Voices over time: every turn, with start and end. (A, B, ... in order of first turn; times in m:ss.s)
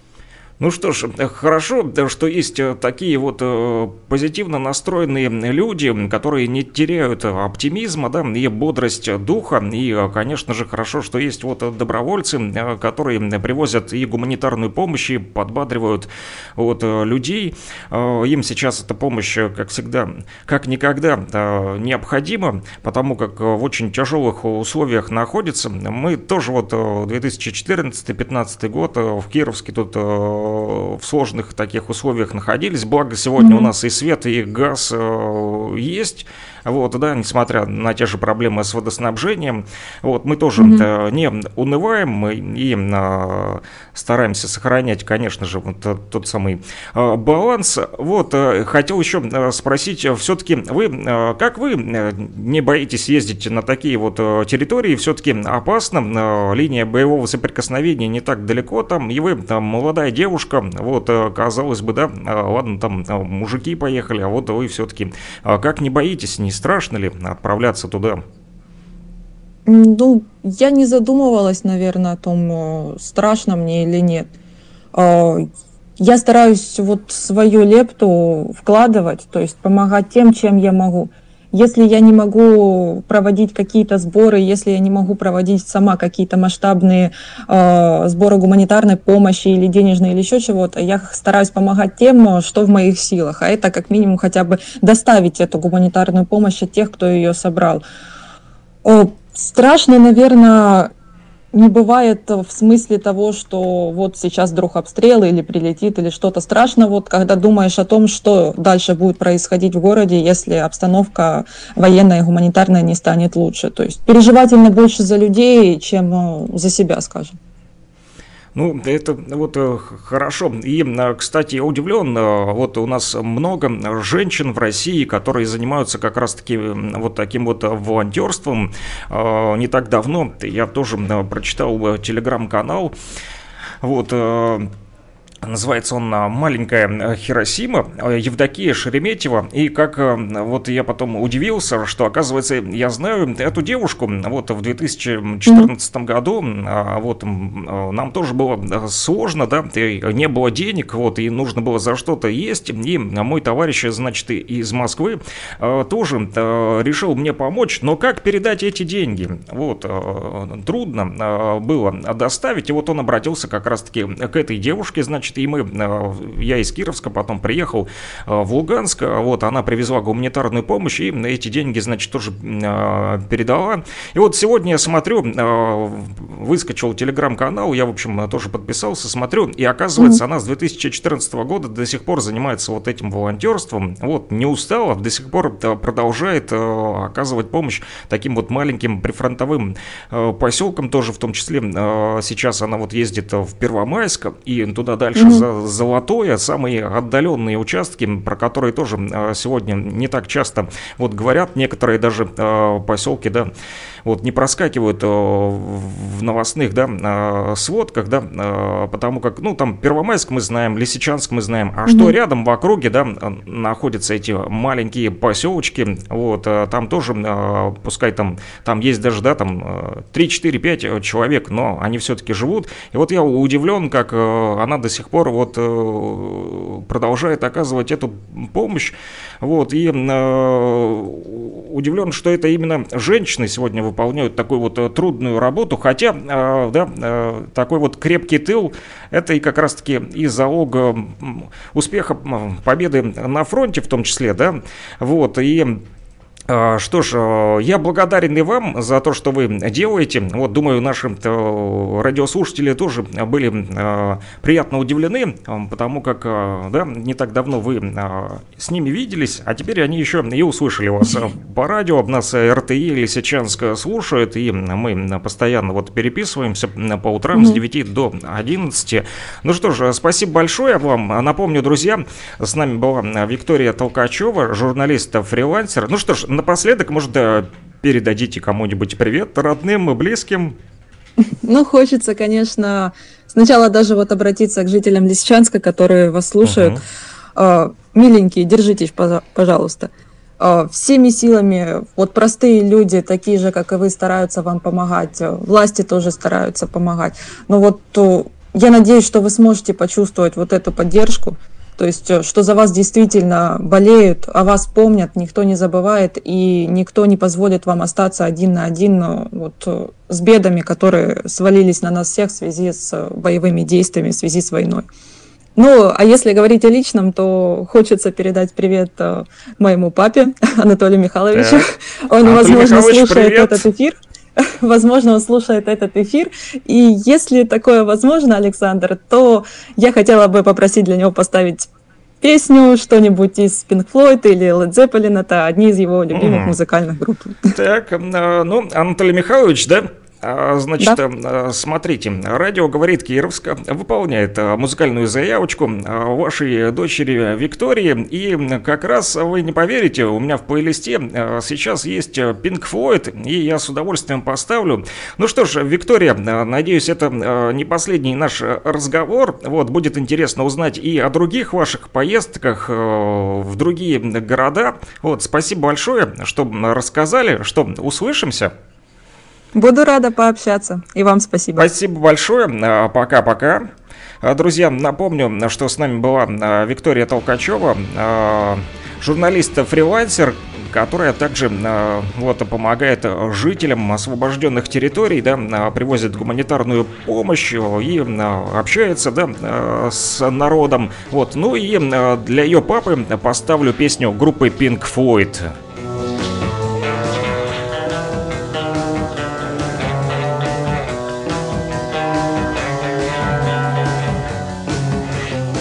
0:00.6-1:08.2 A
0:33.4-0:33.7 B
0:40.6-0:40.8 B
1:09.6-1:14.3 B
1:14.9-1:15.5 B
1:16.0-1:37.8 B
1:38.8-1:40.9 B
1:41.5-1:57.4 B
1:58.5-2:12.9 A
2:13.8-2:14.7 A
2:15.4-3:23.5 A
3:15.2-3:15.4 B
3:24.0-4:05.8 A
3:31.9-3:32.1 B
4:06.5-4:40.6 A
4:27.3-4:27.6 B
4:41.2-4:46.7 B
4:46.4-4:46.8 A
4:47.4-5:14.9 B
5:15.6-5:31.7 B
5:21.3-5:21.6 A
5:22.2-5:23.6 A
5:32.2-5:37.5 B
5:36.1-5:36.6 A
5:37.5-6:08.5 A
6:09.5-6:11.7 B
6:11.6-6:13.7 A
6:14.2-6:35.5 A